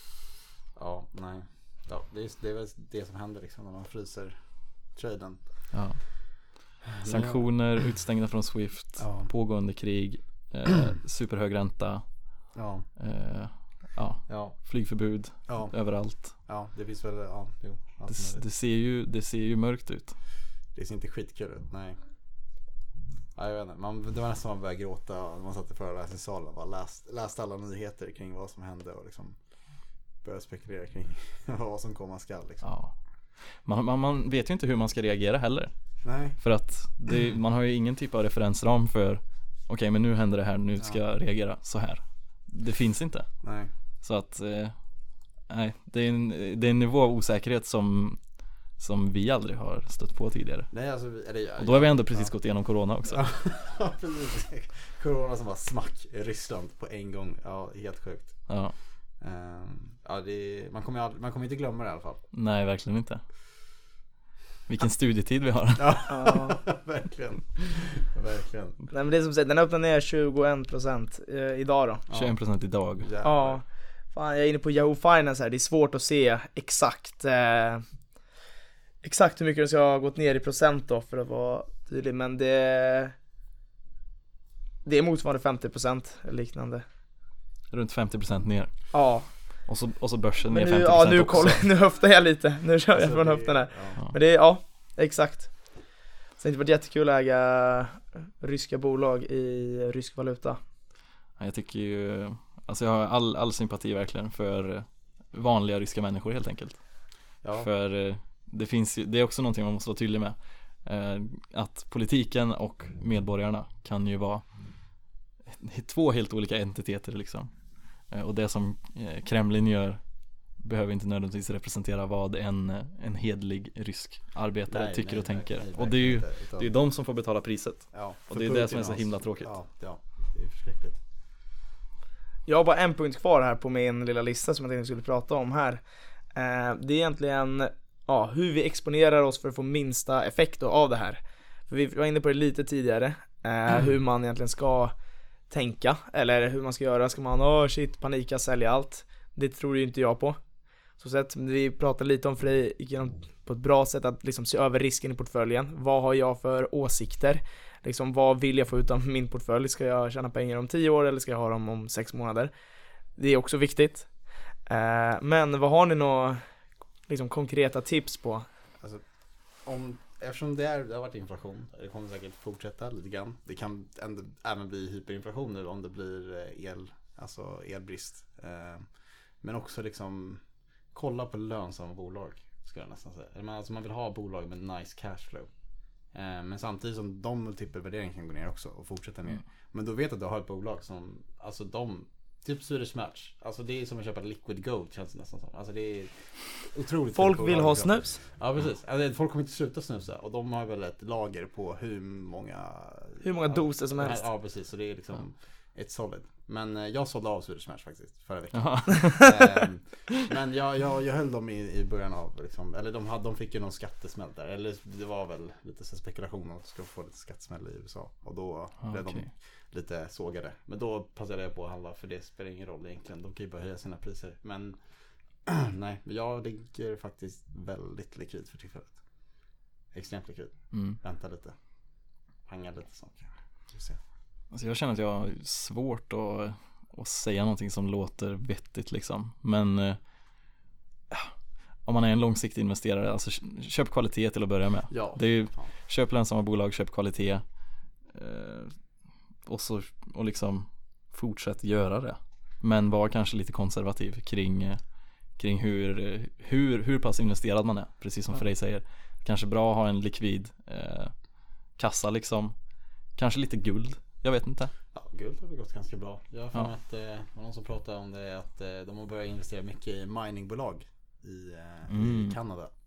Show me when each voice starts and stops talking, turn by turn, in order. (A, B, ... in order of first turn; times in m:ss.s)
0:00.7-0:05.7 A
0:05.7-0:16.3 B
0:06.9-0:07.5 A
0:09.0-0:09.3 A
0:12.5-0:12.8 A
0:14.3-0:14.6 A
0:15.4-0:18.4 A
0:18.1-0:20.2 B
0:20.7-0:22.0 A
0:23.3-0:29.4 A
0:30.2-0:32.7 A
0:32.6-0:35.7 B
0:36.0-0:36.4 A
0:36.3-0:43.4 B
0:43.4-0:43.7 A
0:44.0-0:44.8 B
0:45.5-0:50.7 B
0:50.7-0:52.4 A
0:51.6-0:53.2 B
0:53.0-0:58.6 A
0:58.5-0:58.7 B
0:59.2-1:02.2 A
1:02.3-1:03.2 B
1:04.7-1:06.1 B
1:05.8-1:08.8 A
1:06.1-1:06.6 C
1:08.9-1:12.0 C
1:12.1-1:13.6 A
1:12.1-1:13.1 B
1:13.2-1:17.9 C
1:19.0-1:23.1 C
1:24.8-1:26.8 C
1:27.7-1:31.7 B
1:28.9-1:29.6 C
1:30.5-1:40.6 C
1:32.9-1:34.0 A
1:41.4-1:47.0 B
1:47.4-1:47.7 A
1:47.5-1:54.6 B
1:55.5-1:57.5 B
1:58.0-2:09.5 B
2:04.7-2:06.7 A
2:07.9-2:11.0 A
2:12.4-2:24.9 C
2:25.5-2:30.4 C
2:31.0-2:42.5 C
2:43.1-2:46.4 C
2:47.1-2:48.5 C
2:49.6-3:05.5 A
3:06.1-3:44.8 A
3:17.2-3:18.2 C
3:23.2-3:24.3 C
3:28.5-3:29.6 B
3:38.8-3:39.3 B
3:45.4-3:49.0 A
3:49.9-3:51.6 A
3:50.7-3:51.0 B
3:52.4-3:54.0 A
3:54.5-4:00.0 B
4:01.8-4:07.4 B
4:04.9-4:05.7 A
4:08.0-4:08.8 B
4:09.4-4:22.5 B
4:23.1-4:24.7 B
4:24.9-4:32.7 A
4:31.9-4:32.4 B